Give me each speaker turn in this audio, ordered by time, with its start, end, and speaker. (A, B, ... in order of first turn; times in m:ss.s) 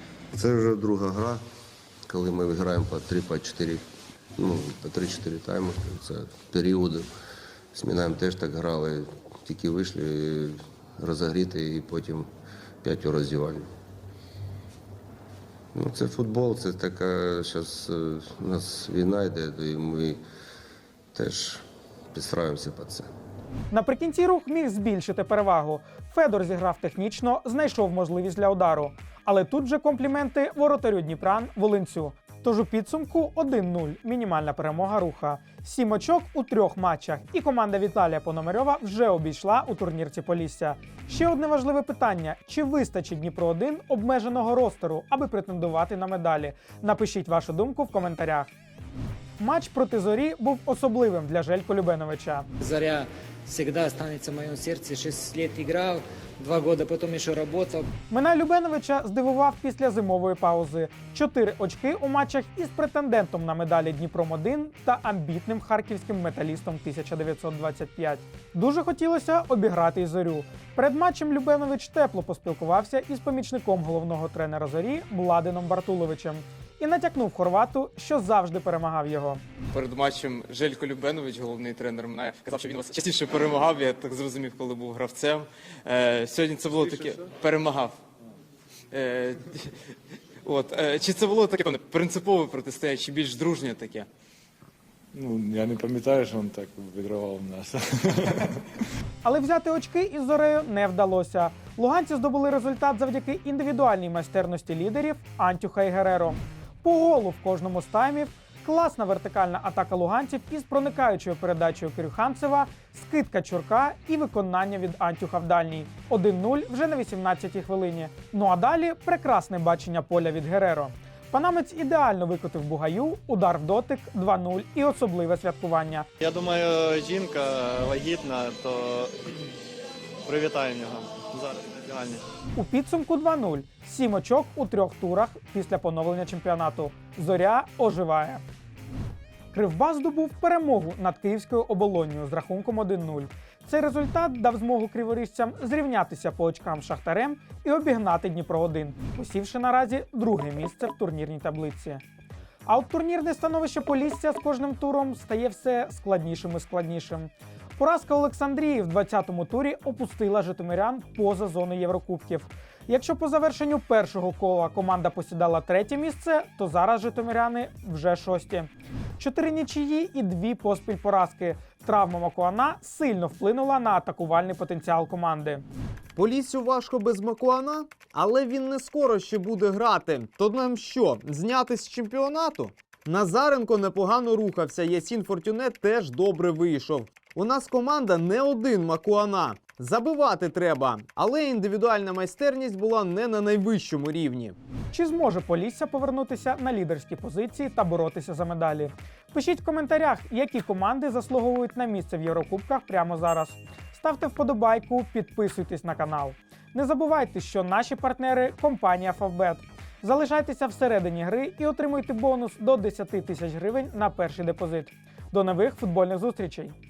0:00.3-0:01.4 A
0:02.1-0:03.8 A
0:04.4-0:07.1 A
0:07.7-0:12.3 A
0:12.8-0:13.7 A
0:15.8-0:20.2 A
0:21.1-0:23.1 A
0:23.7-0:48.5 B
0:49.4-0:52.5 B
0:52.6-0:57.9 C
0:58.1-1:19.4 B
1:19.7-1:28.0 D
1:28.9-1:29.7 D
1:30.4-1:34.1 D
1:35.2-1:38.4 E
1:39.2-2:06.1 B
2:06.2-2:09.2 F
2:10.3-2:12.2 F
2:12.6-2:18.4 B
2:19.5-2:32.0 B
2:32.7-2:55.6 B
2:56.2-3:14.6 G
3:14.9-3:36.8 B